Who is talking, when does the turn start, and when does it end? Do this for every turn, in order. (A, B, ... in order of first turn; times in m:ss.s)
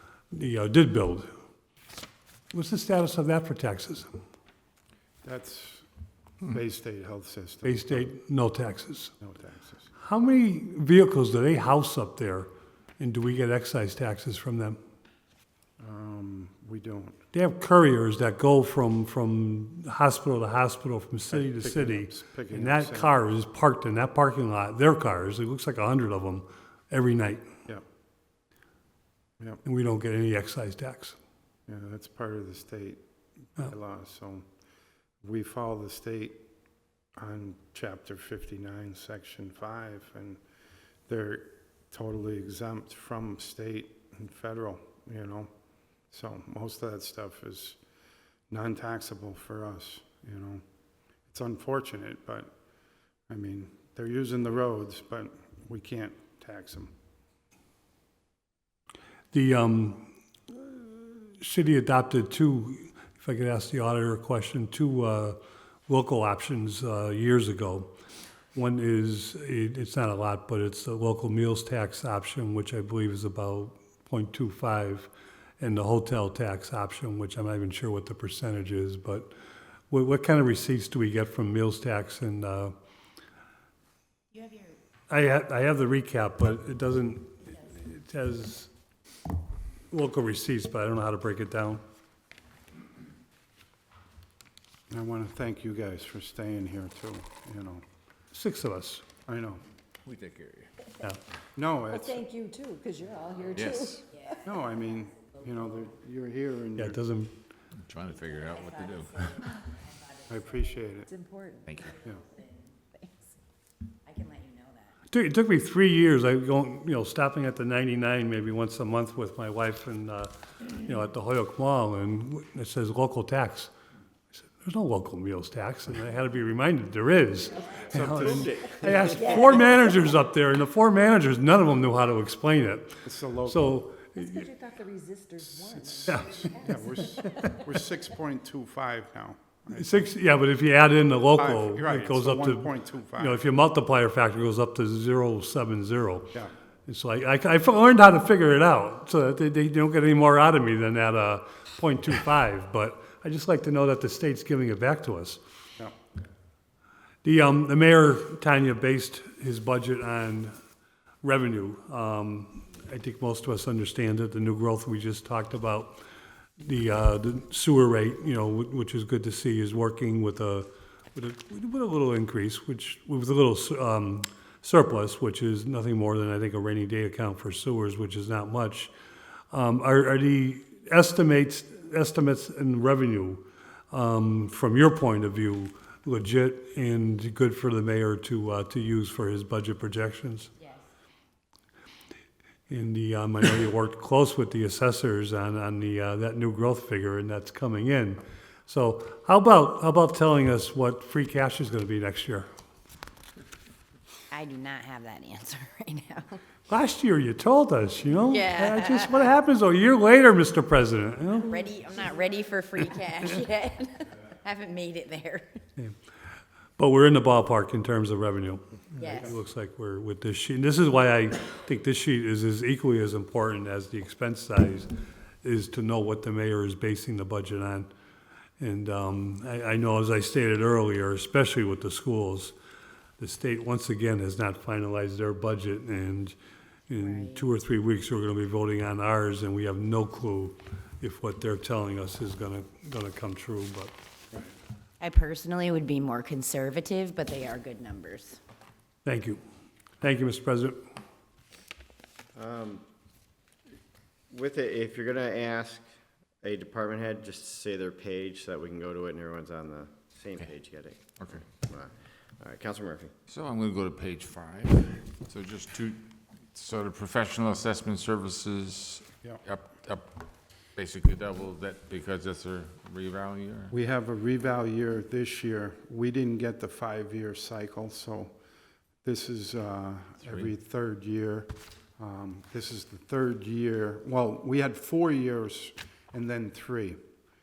0:00.3-0:01.3 A
0:02.5-0:04.1 A
0:05.2-0:05.8 B
0:06.5-0:08.1 B
0:07.6-0:09.1 A
0:09.2-0:09.9 B
0:10.0-0:14.8 A
0:15.8-0:17.2 B
0:17.3-0:27.5 A
0:21.3-0:23.1 B
0:29.6-0:31.2 A
0:31.7-0:33.0 B
0:33.6-0:34.4 B
0:35.2-0:36.4 B
0:37.2-0:40.4 B
0:41.1-0:45.5 B
0:46.1-0:47.8 B
0:48.5-0:50.6 B
0:51.3-0:52.5 B
0:53.3-0:56.9 B
0:59.3-1:07.9 A
1:08.5-1:19.3 A
1:19.9-1:22.7 A
1:24.3-1:24.7 C
1:25.1-1:28.7 A
1:29.9-1:31.8 A
1:34.9-1:37.8 B
1:38.3-1:39.0 A
1:39.3-1:39.6 B
1:40.1-1:40.7 D
1:41.6-1:42.2 B
1:41.9-1:44.0 E
1:43.5-1:44.0 D
1:44.1-1:45.9 C
1:44.4-1:47.0 B
1:46.8-1:47.3 A
1:47.8-1:49.3 D
1:48.1-1:51.0 C
1:50.3-1:51.1 B
1:51.1-1:51.8 E
1:51.6-1:52.0 D
1:51.8-1:52.8 C
1:54.0-1:55.0 C
1:55.1-2:03.7 A
2:04.4-2:14.4 A
2:07.9-2:08.5 B
2:08.5-2:09.4 F
2:13.0-2:13.8 B
2:14.2-2:17.0 E
2:15.6-2:20.1 B
2:16.1-2:16.4 A
2:19.7-2:26.3 A
2:21.4-2:23.4 B
2:26.9-2:35.4 A
2:37.2-2:40.5 A
2:41.2-2:46.0 A
2:46.6-2:58.9 A
2:59.5-3:10.5 A
3:12.7-3:22.5 A
3:24.3-3:26.4 C
3:26.7-3:31.6 A
3:28.3-3:29.3 C
3:31.4-3:35.6 C
3:36.8-3:44.9 A
3:39.0-3:39.4 C
3:45.4-3:47.9 A
3:48.6-3:52.5 A
3:53.2-3:56.4 A
3:56.9-4:03.9 A
3:57.0-3:57.5 C
4:05.0-4:08.4 C
4:09.0-4:09.4 A
4:10.0-4:10.8 A
4:12.3-4:12.8 F
4:14.3-4:15.9 F
4:16.4-4:23.1 F
4:21.2-4:21.4 D
4:23.3-4:30.1 D
4:30.8-4:33.7 D
4:33.7-4:38.3 B
4:39.0-4:47.0 B